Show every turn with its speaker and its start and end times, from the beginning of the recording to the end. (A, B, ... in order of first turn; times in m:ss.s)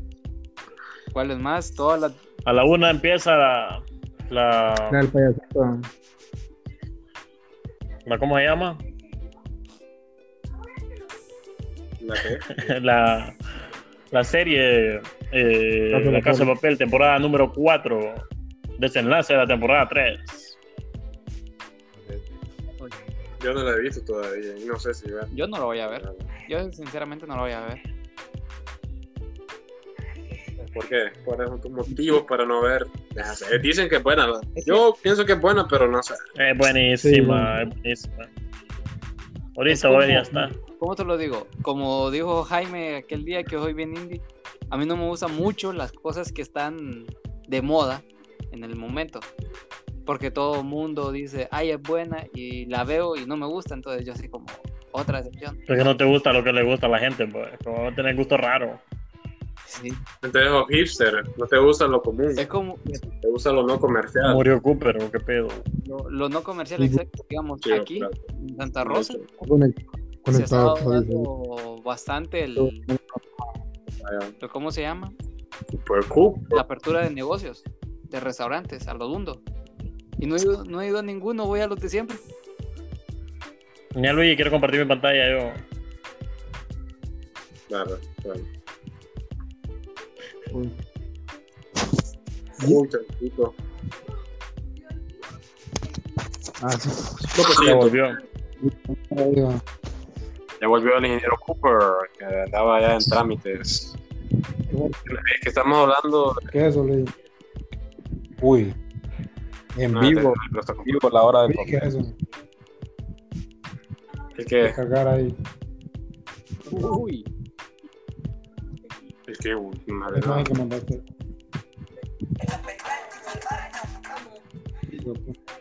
0:01.1-0:02.2 A
0:02.5-0:05.0 B
0:04.9-0:05.9 C
0:08.1-0:08.8 B
0:12.0-0:12.4 D
0:12.2-0:13.4 B
0:14.1-0:18.3 B
0:15.9-0:16.5 C
0:18.8-0:20.6 B
0:22.0-0:22.4 E
0:22.9-0:23.4 E
0:23.4-0:25.3 D
0:25.3-0:27.8 A
0:25.9-0:26.3 D
0:30.8-0:36.2 D
0:36.4-0:38.3 B
0:37.0-0:37.6 C
0:39.6-0:40.5 B
0:39.7-0:49.3 A
0:50.1-0:55.6 A
0:55.7-0:58.8 B
0:59.7-1:00.0 A
1:00.2-1:02.4 D
1:02.4-1:03.0 A
1:03.0-1:04.4 D
1:04.2-1:05.6 B
1:05.8-1:09.2 A
1:07.6-1:08.3 D
1:08.8-1:09.3 D
1:09.4-1:11.3 C
1:10.3-1:12.8 A
1:12.6-1:13.2 C
1:14.0-1:14.4 D
1:14.4-1:15.2 A
1:15.8-1:16.6 D
1:16.5-1:19.4 A
1:20.2-1:22.2 A
1:24.0-1:25.6 B
1:27.7-1:28.5 D
1:32.6-1:33.5 D
1:36.6-1:37.8 C
1:37.3-1:38.0 D
1:37.6-1:38.2 B
1:38.6-1:39.6 C
1:40.6-1:43.9 D
1:44.7-1:45.0 C
1:45.1-1:46.5 D
1:46.5-1:47.1 C
1:48.4-1:48.8 E
1:49.8-1:51.8 E
1:49.9-1:51.0 D
1:51.5-1:52.1 C
1:54.4-1:54.8 D
1:54.6-1:55.3 C
1:56.7-1:57.3 A
1:59.3-2:00.5 D
2:00.1-2:01.0 C
2:04.9-2:05.3 C